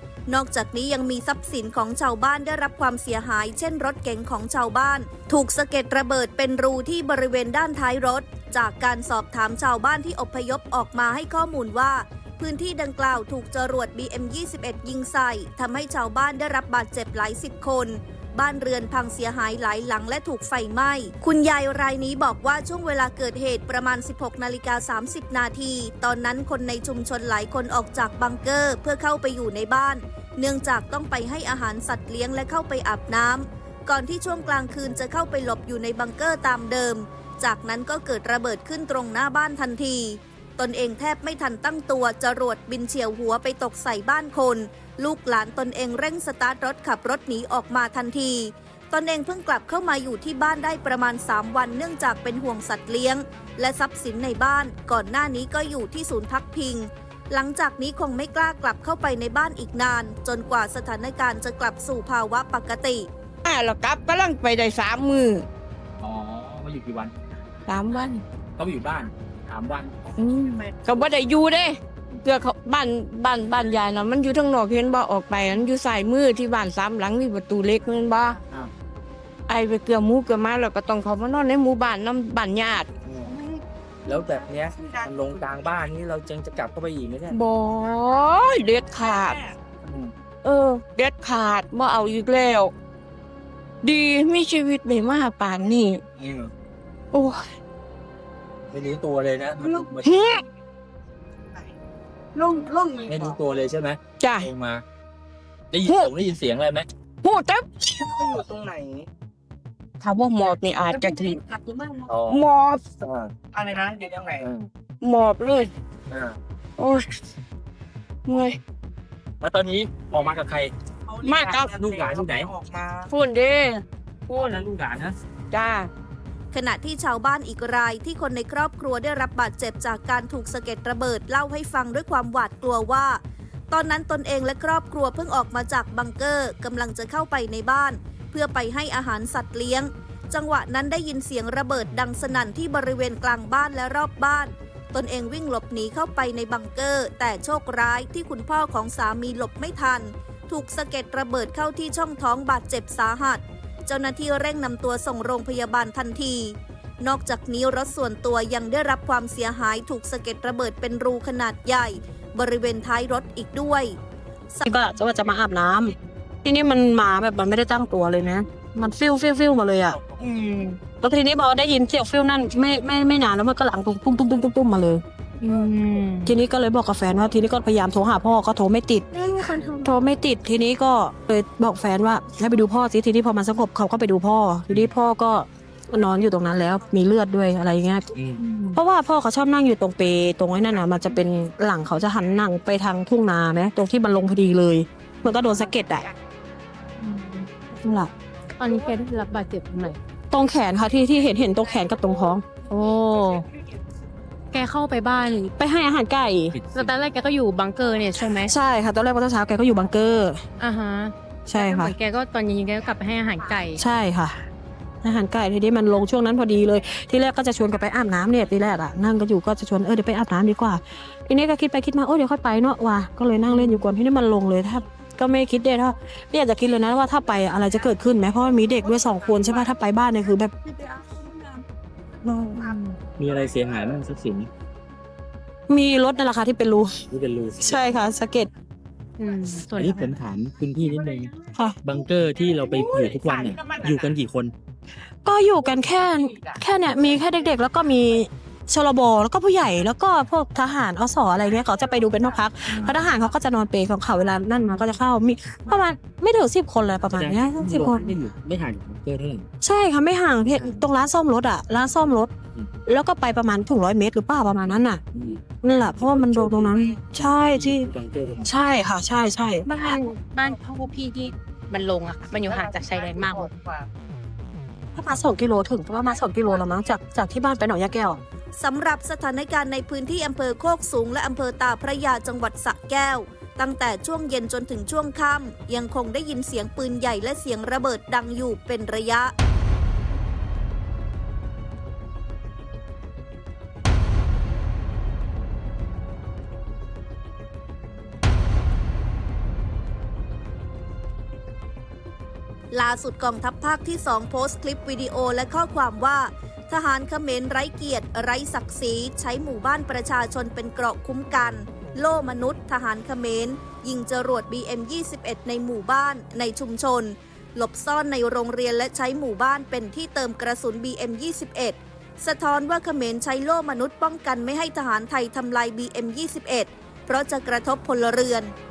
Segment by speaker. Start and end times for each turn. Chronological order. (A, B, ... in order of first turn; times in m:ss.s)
0:00.3-1:03.1 A
1:03.4-1:05.5 B
1:06.0-1:07.2 C
1:07.7-1:08.2 B
1:08.6-1:09.9 C
1:10.2-1:18.4 B
1:19.5-1:22.9 B
1:24.1-1:27.4 C
1:27.3-1:29.6 B
1:30.4-1:32.7 B
1:33.8-1:36.0 B
1:36.2-1:36.5 C
1:37.1-1:37.6 B
1:38.7-1:40.1 C
1:40.0-1:40.4 B
1:42.4-1:43.0 B
1:43.1-1:44.8 C
1:44.2-1:44.5 B
1:45.7-1:46.9 C
1:45.9-1:46.1 B
1:47.2-1:48.4 B
1:48.4-1:49.1 D
1:50.0-1:51.5 B
1:52.1-1:52.4 C
1:52.3-1:53.0 B
1:53.0-1:53.3 C
1:53.6-1:54.4 D
1:53.7-1:54.3 B
1:55.0-1:55.7 B
1:56.1-1:56.4 C
1:56.8-1:57.2 B
1:58.3-1:58.6 B
1:59.4-2:00.7 C
2:01.2-2:01.8 B
2:01.7-2:02.6 C
2:02.3-2:02.8 D
2:02.9-2:04.6 B
2:04.4-2:05.1 C
2:05.5-2:05.9 B
2:06.5-2:44.0 A
2:44.7-2:50.0 E
2:50.2-2:50.8 F
2:50.8-2:55.0 E
2:55.4-2:56.4 F
2:56.2-3:16.1 E
2:59.3-2:59.7 F
3:08.2-3:08.4 C
3:17.1-3:17.4 F
3:17.7-3:18.1 E
3:18.6-3:20.0 F
3:20.3-3:22.5 E
3:22.7-3:23.5 F
3:24.5-3:25.5 F
3:25.6-3:26.6 E
3:26.6-3:26.9 C
3:26.7-3:28.5 F
3:28.4-3:30.4 E
3:30.6-3:33.8 F
3:31.5-3:32.0 E
3:33.7-3:34.4 E
3:35.0-3:51.0 E
3:43.5-3:43.8 F
3:52.2-3:52.8 E
3:53.2-3:54.5 C
3:55.7-3:57.0 E
3:57.1-3:57.8 C
3:57.6-3:58.5 E
3:59.2-4:00.2 F
3:59.8-4:01.3 C
4:01.5-4:01.8 E
4:01.8-4:04.5 C
4:05.2-4:18.1 E
4:12.7-4:12.9 C
4:17.1-4:19.5 C
4:19.6-4:22.3 E
4:22.8-4:25.0 E
4:25.2-4:26.7 C
4:25.5-4:27.9 E
4:27.5-4:28.5 C
4:28.4-4:30.0 E
4:29.7-4:33.8 F
4:34.9-4:38.2 E
4:38.6-4:49.3 A
5:02.7-5:28.5 A